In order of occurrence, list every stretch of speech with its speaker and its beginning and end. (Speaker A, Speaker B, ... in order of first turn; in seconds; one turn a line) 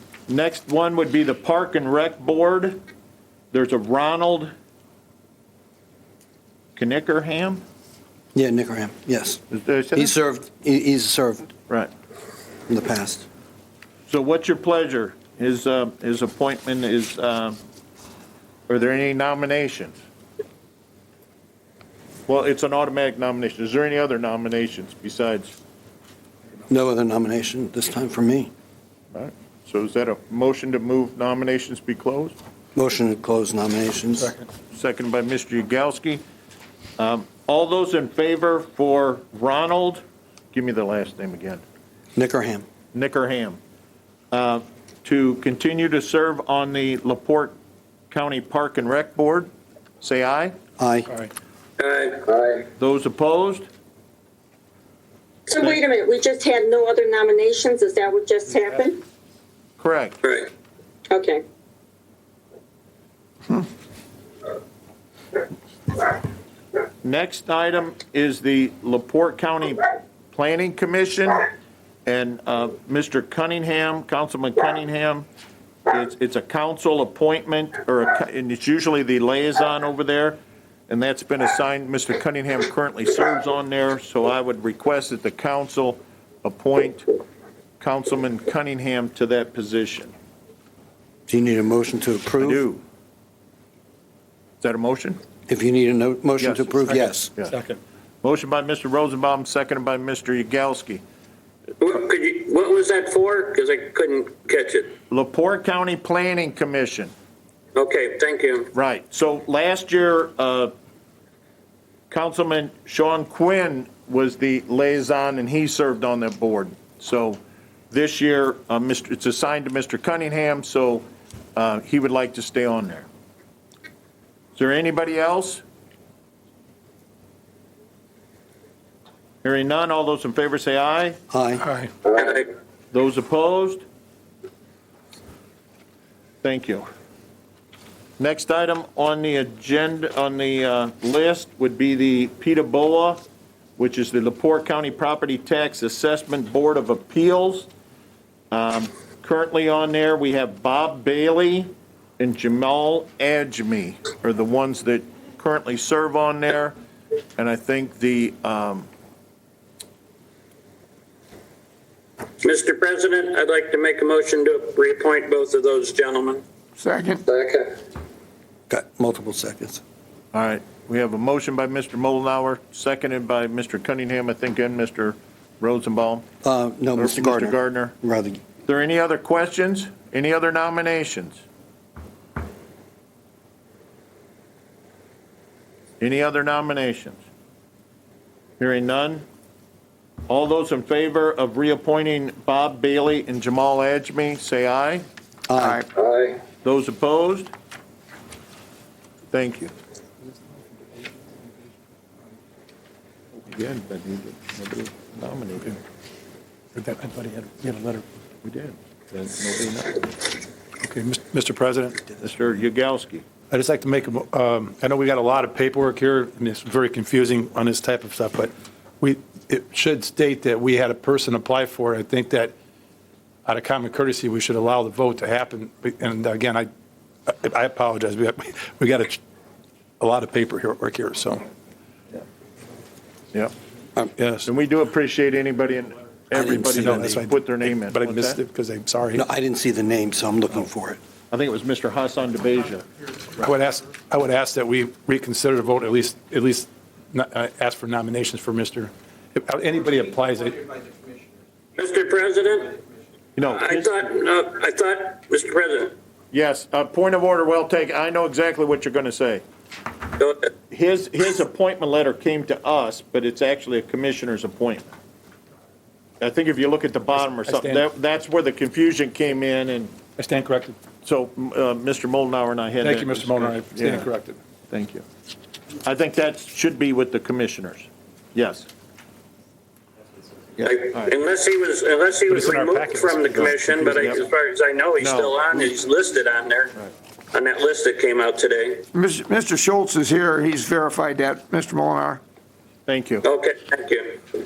Speaker A: 0.3-2.8
Speaker A: 3.5-4.5
Speaker A: 6.8-7.6
Speaker B: 8.3-9.4
Speaker A: 9.5-10.1
Speaker B: 9.9-11.5
Speaker B: 12.7-13.3
Speaker A: 14.1-17.6
Speaker A: 18.7-20.0
Speaker A: 22.3-25.5
Speaker B: 26.7-28.5
Speaker A: 29.1-32.4
Speaker B: 32.8-34.3
Speaker A: 34.7-36.2
Speaker A: 37.0-41.6
Speaker B: 42.1-42.6
Speaker A: 42.9-43.6
Speaker A: 44.3-47.5
Speaker A: 48.1-49.5
Speaker A: 50.0-50.5
Speaker B: 50.8-51.1
Speaker C: 51.8-52.5
Speaker A: 52.7-53.7
Speaker D: 55.5-59.0
Speaker A: 59.8-60.2
Speaker C: 60.2-60.5
Speaker D: 61.1-61.4
Speaker A: 67.0-71.5
Speaker A: 72.0-75.2
Speaker A: 75.9-87.0
Speaker A: 87.8-90.1
Speaker B: 91.3-92.7
Speaker A: 92.4-92.8
Speaker A: 94.6-95.2
Speaker B: 95.5-97.3
Speaker A: 96.4-97.5
Speaker E: 96.9-97.8
Speaker A: 98.2-101.0
Speaker C: 101.8-104.9
Speaker A: 105.1-107.1
Speaker C: 107.7-108.7
Speaker A: 108.7-110.7
Speaker A: 112.1-123.1
Speaker A: 124.5-125.6
Speaker A: 129.4-131.2
Speaker B: 131.3-131.7
Speaker C: 132.2-132.4
Speaker A: 132.9-133.8
Speaker A: 136.4-136.9
Speaker A: 138.2-143.2
Speaker A: 143.8-147.7
Speaker A: 148.5-156.8
Speaker A: 157.4-158.9
Speaker C: 162.4-166.4
Speaker F: 166.8-167.2
Speaker C: 167.3-167.6
Speaker B: 168.7-169.8
Speaker A: 170.3-176.2
Speaker B: 176.4-178.4
Speaker A: 177.0-177.9
Speaker A: 178.7-181.4
Speaker A: 186.0-187.2
Speaker A: 188.6-189.2
Speaker A: 190.3-195.0
Speaker B: 195.5-195.8
Speaker F: 195.6-195.9
Speaker A: 196.6-197.5
Speaker A: 199.3-199.7
Speaker A: 203.5-205.8
Speaker E: 206.8-208.0
Speaker A: 208.4-210.1
Speaker E: 210.8-212.1
Speaker A: 212.2-213.2
Speaker E: 213.5-222.5
Speaker E: 223.5-226.7
Speaker E: 227.2-229.2
Speaker E: 230.0-231.4
Speaker E: 234.2-234.5
Speaker A: 234.4-238.4
Speaker B: 236.3-237.2
Speaker E: 236.5-239.2
Speaker B: 239.1-241.0
Speaker A: 241.3-242.8
Speaker E: 243.4-250.8
Speaker C: 251.8-252.8
Speaker A: 253.4-254.1
Speaker C: 253.5-255.9
Speaker A: 256.3-259.4
Speaker A: 260.7-264.9
Speaker A: 266.2-269.9
Speaker E: 267.3-267.9
Speaker E: 270.2-270.8
Speaker A: 271.0-274.1
Speaker E: 272.8-274.4
Speaker A: 274.7-275.1
Speaker A: 275.8-278.7
Speaker A: 280.6-281.2
Speaker C: 280.6-286.7
Speaker E: 282.3-284.2
Speaker A: 283.9-284.2
Speaker A: 285.0-285.5
Speaker C: 287.3-288.9
Speaker F: 288.9-292.2
Speaker A: 292.9-293.3
Speaker C: 293.2-294.2